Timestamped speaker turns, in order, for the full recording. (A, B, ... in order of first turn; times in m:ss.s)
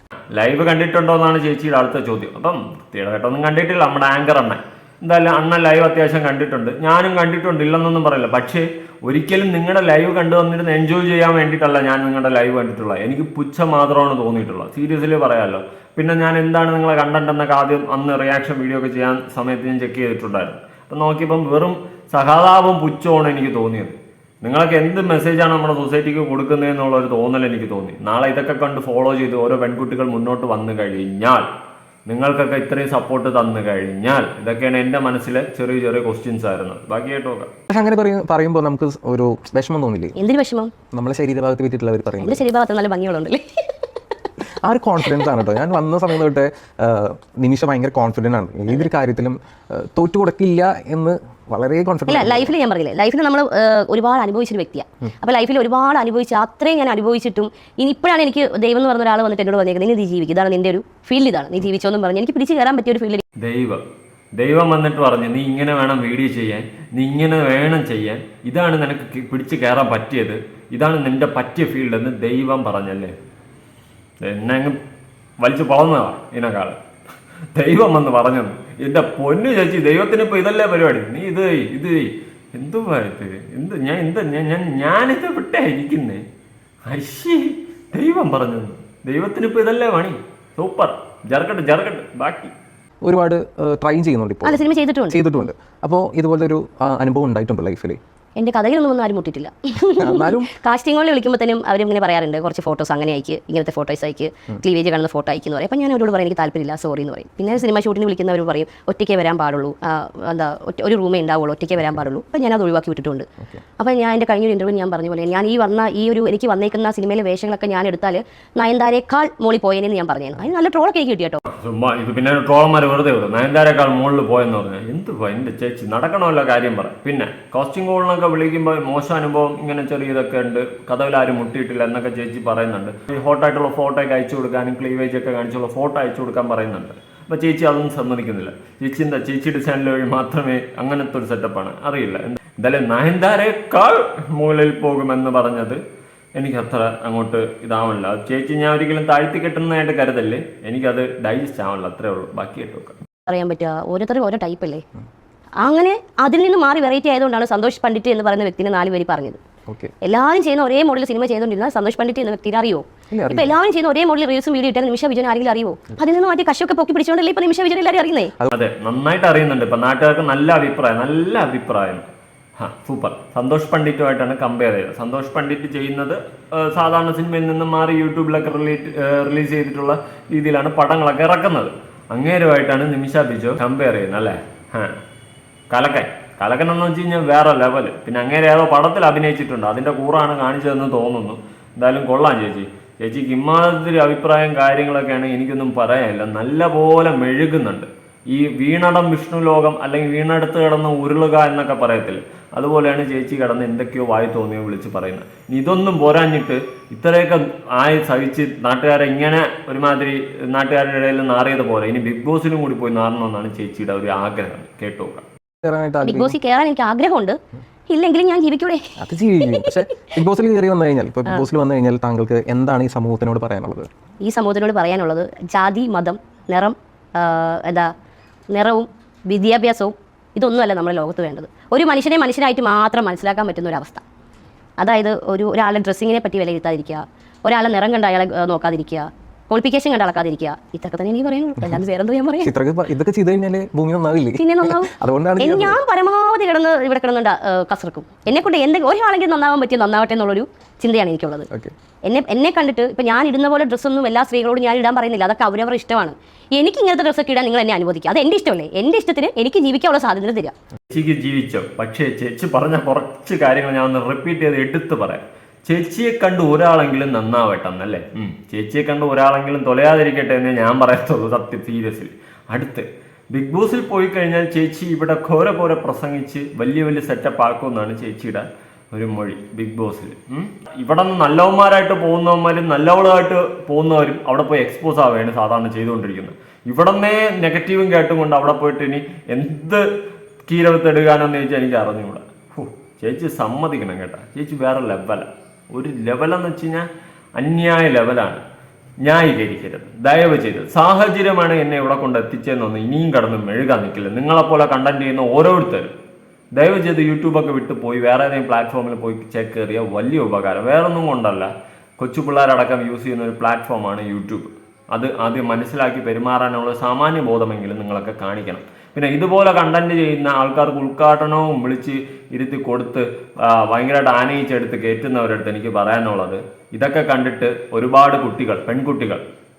0:00.3-0:31.4 A
0:32.1-0:37.5 A
0:37.7-0:40.2 B
0:40.2-0:40.7 C
0:40.9-0:42.4 B
0:42.2-0:43.7 C
0:44.6-0:52.5 B
0:52.1-1:03.2 C
1:03.4-1:03.8 A
1:04.3-1:13.1 A
1:14.2-1:14.8 A
1:15.4-1:16.8 A
1:17.5-1:26.2 A
1:26.9-1:32.5 A
1:33.0-1:38.0 B
1:34.4-1:35.2 C
1:38.4-1:53.3 C
1:39.9-1:40.5 B
1:53.8-2:01.4 C
2:01.5-2:25.8 A
2:26.3-2:33.0 A
2:33.3-2:34.8 C
2:35.6-2:39.4 C
2:39.7-2:39.9 B
2:40.0-2:48.3 C
2:43.1-2:43.6 B
2:48.5-2:52.1 A
2:52.6-3:05.0 A
3:05.7-3:35.2 A
3:35.6-3:36.4 B
3:36.0-3:37.4 C
3:37.9-3:38.9 C
3:39.0-3:43.9 B
3:39.5-3:39.8 C
3:44.2-3:47.9 C
3:48.5-3:54.0 C
3:54.8-4:02.5 C
4:02.4-4:05.8 B
4:04.4-4:11.5 C
4:12.0-4:20.5 C
4:20.9-4:49.8 A
4:50.5-4:56.8 A
4:57.4-4:58.4 A
4:59.0-5:05.9 A
5:06.6-5:29.2 A